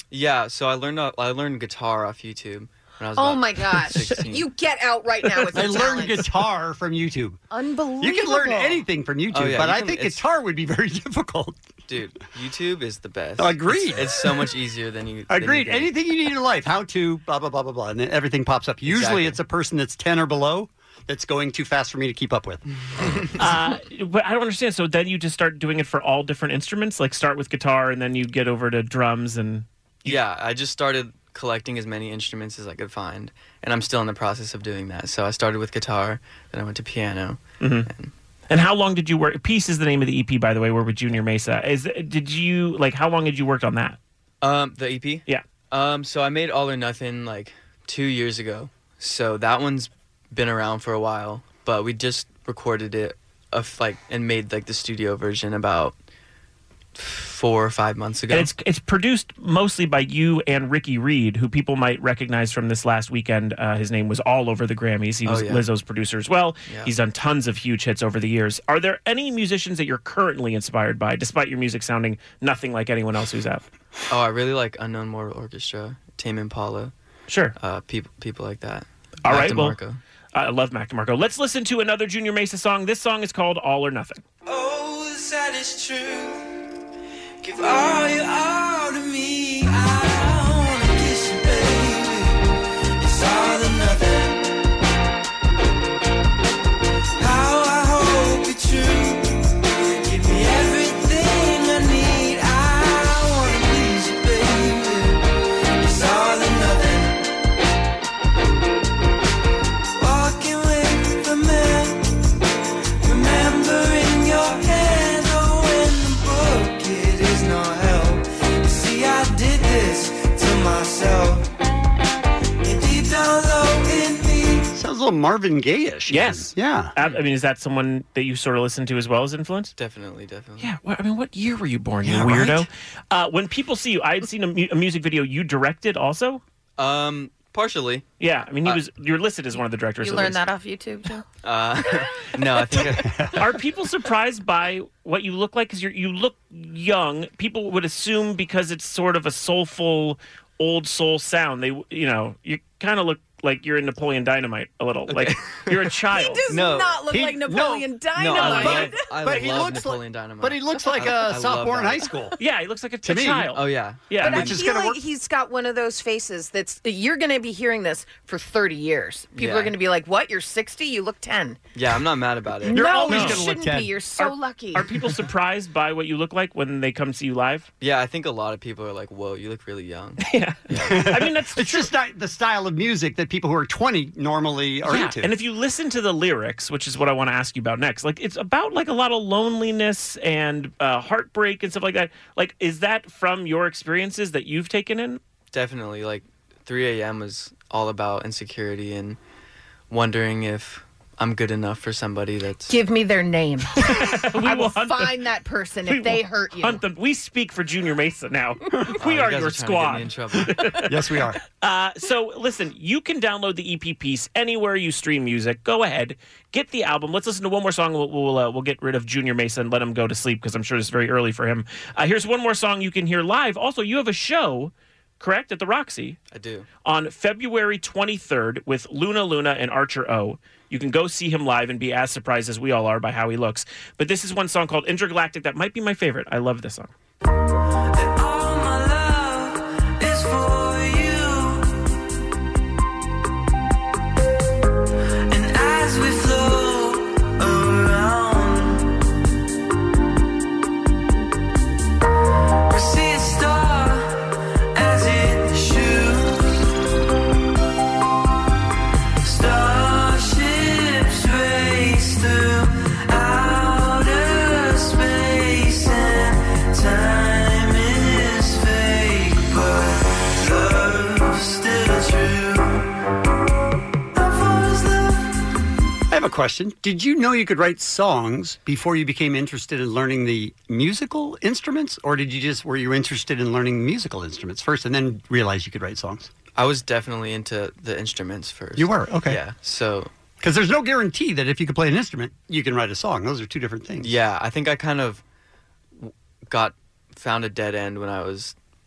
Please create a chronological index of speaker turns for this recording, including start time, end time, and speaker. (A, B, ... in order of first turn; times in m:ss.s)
0:00.1-0:04.5 A
0:03.2-0:06.2 B
0:05.5-0:07.4 C
0:07.5-0:08.8 B
0:08.0-0:11.6 C
0:09.3-0:10.2 A
0:11.9-0:15.9 A
0:13.4-0:14.5 C
0:15.3-0:22.6 C
0:18.9-0:19.4 A
0:23.4-0:30.2 D
0:30.0-0:38.1 A
0:37.6-0:37.9 D
0:38.5-0:44.0 D
0:44.4-0:56.0 A
0:57.0-0:58.5 A
0:58.3-1:13.6 D
1:05.2-1:05.6 A
1:06.7-1:06.9 A
1:14.1-1:16.9 A
1:17.3-1:17.5 D
1:17.6-1:20.0 A
1:19.2-1:19.8 D
1:20.3-1:24.2 D
1:24.5-1:26.5 E
1:27.4-1:32.5 E
1:33.0-1:34.6 E
1:37.2-1:45.3 E
1:45.8-1:47.2 E
1:50.0-1:52.1 E
1:53.0-2:01.5 E
2:02.6-2:04.7 E
2:04.7-2:06.9 C
2:06.1-2:09.7 D
2:09.8-2:10.7 A
2:10.6-2:16.4 D
2:12.0-2:12.7 C
2:16.8-2:18.0 A
2:18.2-2:20.4 D
2:20.0-2:21.2 B
2:21.4-2:23.0 A
2:22.7-2:23.5 C
2:23.4-2:36.5 D
2:35.2-2:35.7 A
2:36.1-2:39.0 B
2:36.5-2:37.0 A
2:37.1-2:37.9 C
2:38.2-2:42.1 A
2:38.4-2:38.9 D
2:39.2-2:42.4 C
2:42.4-2:44.5 D
2:43.0-2:43.5 C
2:43.5-2:44.5 A
2:44.2-2:51.6 B
2:44.2-2:45.0 C
2:49.3-2:49.7 A
2:51.8-2:52.9 A
2:52.7-2:54.9 B
2:52.7-2:54.0 C
2:53.1-2:53.4 D
2:54.2-2:57.7 D
2:57.8-3:01.0 A
3:00.2-3:01.9 D
3:00.8-3:05.3 C
3:04.9-3:15.2 D
3:15.5-3:19.2 A
3:19.9-3:22.8 A
3:22.7-3:26.8 B
3:24.0-3:25.2 D
3:25.9-3:31.0 D
3:29.0-3:30.6 A
3:30.8-3:31.4 C
3:31.6-3:46.2 D
3:46.3-3:46.7 A
3:46.8-3:56.9 D
3:58.0-4:01.7 E
4:05.3-4:08.9 E
4:12.7-4:16.6 E
4:19.2-4:32.8 E
4:34.2-4:35.3 E
4:36.1-4:46.3 C
4:46.6-4:50.1 A
4:48.8-4:49.4 C
4:50.4-4:54.2 C
4:54.0-4:55.2 A
4:56.0-4:58.6 A